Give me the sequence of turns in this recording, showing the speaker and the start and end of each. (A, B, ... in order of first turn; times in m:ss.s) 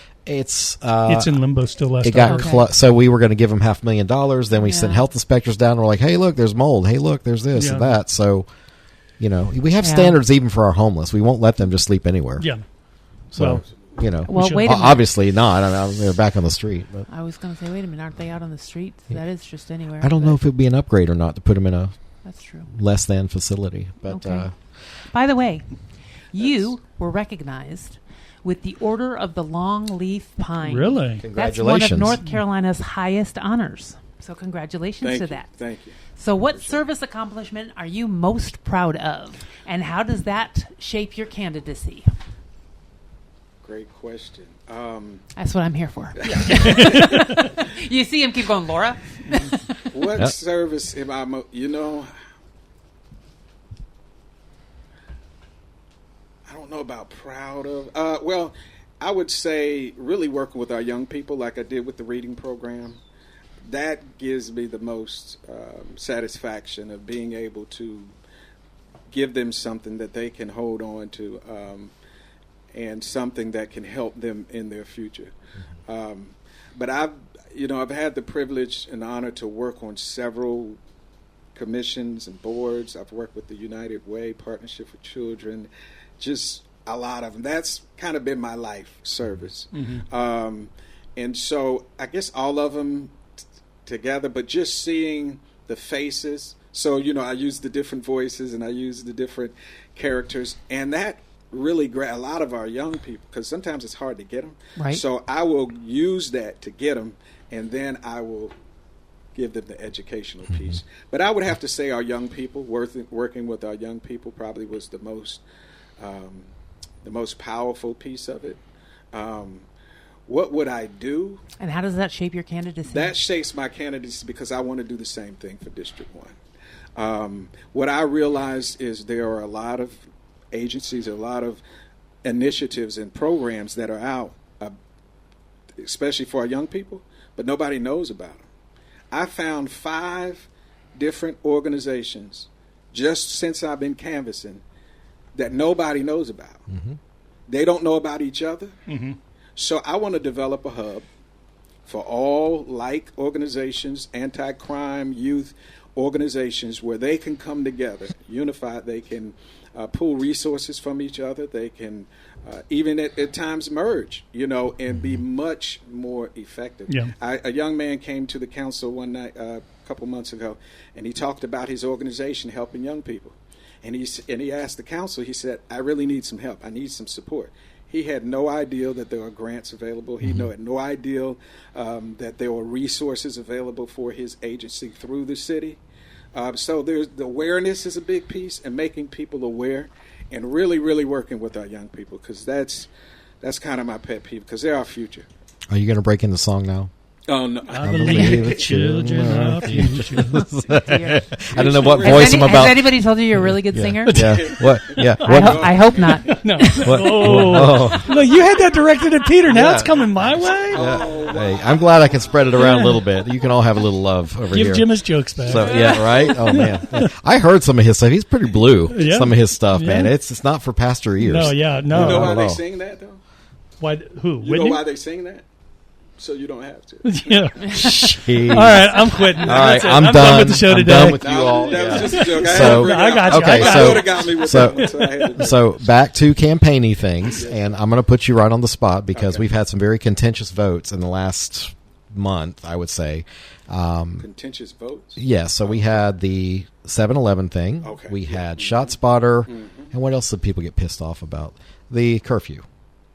0:00.2-0:01.4 A
0:01.0-0:02.6 B
0:02.0-0:08.5 A
0:02.2-0:02.6 C
0:04.5-0:05.1 C
0:07.5-0:07.9 B
0:09.2-0:12.5 A
0:09.8-0:10.2 C
0:12.4-0:12.6 B
0:13.3-0:17.1 A
0:13.3-0:13.6 B
0:14.2-0:15.1 C
0:14.3-0:14.8 B
0:17.1-0:20.4 C
0:20.0-0:22.0 A
0:22.2-0:22.7 C
0:22.7-0:24.5 A
0:24.0-0:24.5 C
0:25.0-0:25.7 C
0:26.3-0:35.6 C
0:30.6-0:31.2 B
0:31.2-0:32.2 A
0:35.0-0:36.0 D
0:36.1-0:42.0 C
0:36.5-0:36.8 D
0:43.6-0:45.2 D
0:45.4-0:49.6 C
0:46.2-0:47.0 D
0:46.7-0:47.2 B
0:49.9-0:52.1 D
0:56.5-1:03.0 D
1:03.6-1:08.1 D
1:09.1-1:11.9 D
1:12.7-1:15.3 D
1:15.9-1:20.8 D
1:21.5-1:33.1 D
1:29.7-1:30.0 B
1:33.8-1:48.5 D
1:44.8-1:45.0 C
1:49.3-1:55.4 D
1:56.0-1:56.5 D
1:57.0-1:58.6 D
1:59.1-1:59.7 D
2:00.3-2:01.4 D
2:01.6-2:03.1 C
2:02.9-2:06.3 D
2:07.0-2:10.0 D
2:10.5-2:11.6 D
2:12.2-2:14.8 D
2:15.8-2:18.4 D
2:19.1-2:24.6 D
2:25.3-2:26.6 D
2:26.7-2:27.0 A
2:27.5-2:28.7 D
2:28.9-2:29.2 B
2:29.6-2:31.0 D
2:31.8-3:05.8 D
2:46.9-2:47.2 B
3:00.2-3:00.5 A
3:06.3-3:12.9 D
3:13.4-3:15.2 D
3:15.7-3:16.9 A
3:17.3-3:18.7 D
3:17.7-3:20.4 B
3:17.8-3:22.9 A
3:20.7-3:21.2 C
3:21.5-3:22.7 D
3:22.0-3:24.3 C
3:23.7-3:25.8 A
3:24.0-3:24.5 B
3:24.3-3:26.4 D
3:25.2-3:27.4 C
3:26.4-3:30.9 B
3:26.8-3:28.1 A
3:29.5-3:30.0 A
3:30.7-3:34.9 A
3:30.7-3:31.9 D
3:32.5-3:33.0 B
3:34.5-3:37.1 B
3:35.4-3:42.6 A
3:35.6-3:36.4 D
3:38.9-3:40.1 B
3:41.2-3:42.4 B
3:41.9-3:43.2 D
3:43.8-3:44.8 B
3:44.4-3:45.4 D
3:46.2-3:47.7 D
3:47.0-3:55.3 B
3:48.0-4:04.3 A
3:51.2-3:55.6 D
3:57.3-3:57.8 D
3:59.1-3:59.4 D
4:04.2-4:06.0 D
4:05.2-4:12.6 A
4:07.8-4:08.9 D
4:09.4-4:09.9 D